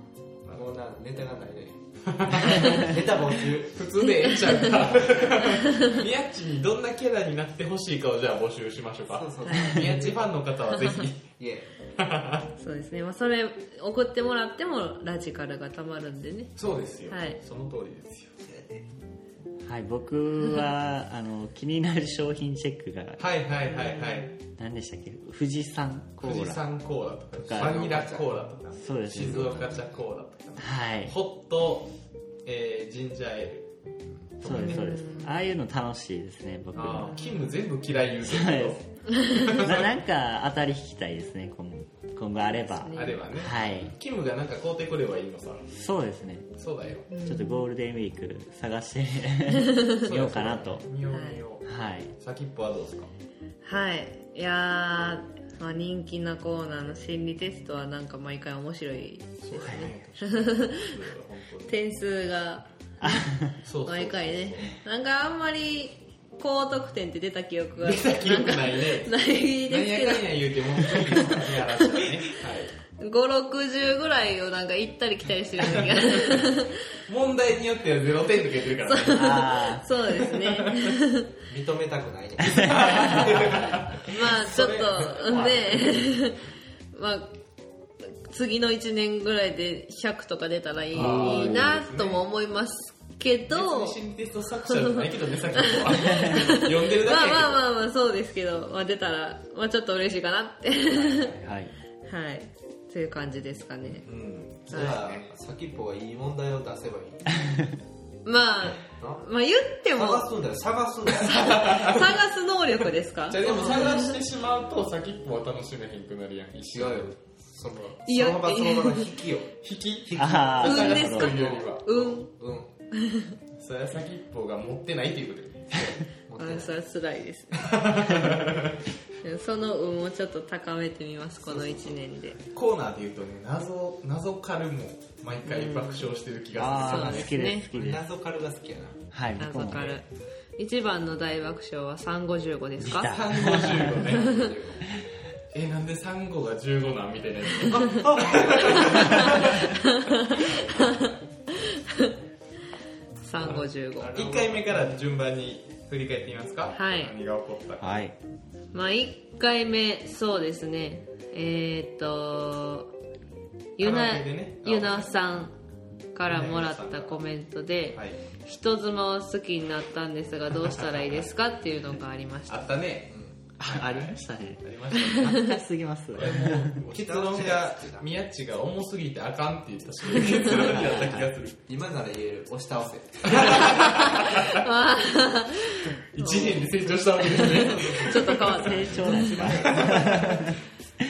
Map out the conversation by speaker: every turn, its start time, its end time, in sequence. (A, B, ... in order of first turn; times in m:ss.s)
0:00.5-0:03.8 A
0:02.1-0:03.0 B
0:03.7-0:11.4 B
0:04.4-0:04.7 C
0:05.6-0:06.0 C
0:09.1-0:10.3 A
0:09.5-0:09.9 C
0:11.3-0:11.7 A
0:12.0-0:12.5 B
0:12.6-0:16.6 C
0:16.6-0:18.3 B
0:17.1-0:17.4 C
0:18.5-0:18.8 A
0:19.6-0:23.2 D
0:23.2-0:24.3 B
0:23.9-0:24.2 C
0:24.5-0:26.6 D
0:26.2-0:31.9 B
0:27.4-0:27.8 D
0:27.5-0:28.3 A
0:28.8-0:29.7 D
0:29.1-0:29.8 A
0:30.6-0:31.2 D
0:32.4-0:33.7 B
0:34.4-0:35.3 B
0:34.4-0:37.2 D
0:34.5-0:35.4 C
0:36.8-0:39.9 B
0:37.1-0:37.5 C
0:38.2-0:38.8 D
0:39.1-0:39.5 C
0:39.4-0:44.0 D
0:42.8-0:43.2 C
0:42.9-0:45.7 B
0:45.7-0:46.5 D
0:46.6-0:47.1 B
0:47.1-0:47.7 C
0:47.2-0:50.8 D
0:49.7-0:50.0 C
0:50.0-0:53.1 B
0:51.1-0:51.4 C
0:51.6-0:52.1 D
0:53.6-1:00.9 C
0:59.4-1:01.8 B
0:59.6-0:59.9 D
1:01.7-1:02.7 C
1:03.0-1:03.6 D
1:03.6-1:04.7 B
1:03.8-1:12.0 C
1:07.8-1:12.7 B
1:13.0-1:16.8 C
1:15.8-1:16.5 B
1:17.1-1:19.5 B
1:18.9-1:21.3 C
1:19.1-1:19.8 D
1:20.1-1:21.0 B
1:21.5-1:23.9 A
1:22.6-1:26.1 B
1:24.0-1:27.4 C
1:28.0-1:34.0 C
1:30.9-1:32.2 B
1:31.0-1:31.8 D
1:33.5-1:37.6 B
1:34.7-1:35.0 C
1:35.6-1:41.3 C
1:40.9-1:41.5 B
1:41.4-1:41.7 D
1:42.1-1:44.1 C
1:44.1-1:45.3 B
1:44.7-1:47.8 A
1:44.7-1:45.0 C
1:48.2-1:50.3 C
1:49.0-1:49.3 A
1:49.9-1:51.9 A
1:51.1-1:54.2 C
1:51.3-1:52.2 B
1:53.3-1:57.1 B
1:53.4-1:54.0 A
1:56.7-2:02.7 A
1:58.1-1:59.1 C
1:59.6-2:02.2 B
2:00.2-2:01.4 D
2:00.6-2:02.3 C
2:02.9-2:03.4 C
2:03.6-2:06.0 B
2:06.3-2:06.8 A
2:06.4-2:08.2 C
2:07.6-2:08.8 B
2:09.2-2:12.4 C
2:11.5-2:11.9 A
2:12.5-2:17.3 B
2:15.4-2:16.1 C
2:16.6-2:18.0 D
2:16.8-2:17.7 C
2:17.7-2:19.0 A
2:19.1-2:20.0 D
2:19.4-2:20.1 C
2:19.7-2:20.0 B
2:20.6-2:23.2 C
2:22.8-2:24.1 D
2:23.0-2:24.5 B
2:23.9-2:24.8 A
2:24.2-2:24.4 C
2:25.5-2:29.9 B
2:27.7-2:29.6 A
2:28.7-2:32.1 C
2:30.5-2:31.1 B
2:33.2-2:34.2 C
2:33.4-2:38.0 B
2:34.0-2:35.1 A
2:36.8-2:37.2 C
2:37.8-2:38.2 D
2:38.7-2:42.9 C
2:43.8-2:45.6 C
2:43.8-2:45.1 B
2:46.1-2:52.7 C
2:46.3-2:47.2 B
2:47.9-2:48.2 B
2:50.6-2:51.3 B
2:52.5-2:55.4 B
2:53.1-2:53.4 A
2:53.6-2:56.8 D
2:55.0-2:55.6 C
2:56.1-3:01.6 B
2:56.8-2:58.1 A
3:00.5-3:01.3 D
3:01.7-3:03.9 A
3:03.3-3:04.6 B
3:03.8-3:09.9 C
3:06.1-3:10.5 B
3:07.3-3:08.5 A
3:08.5-3:10.6 D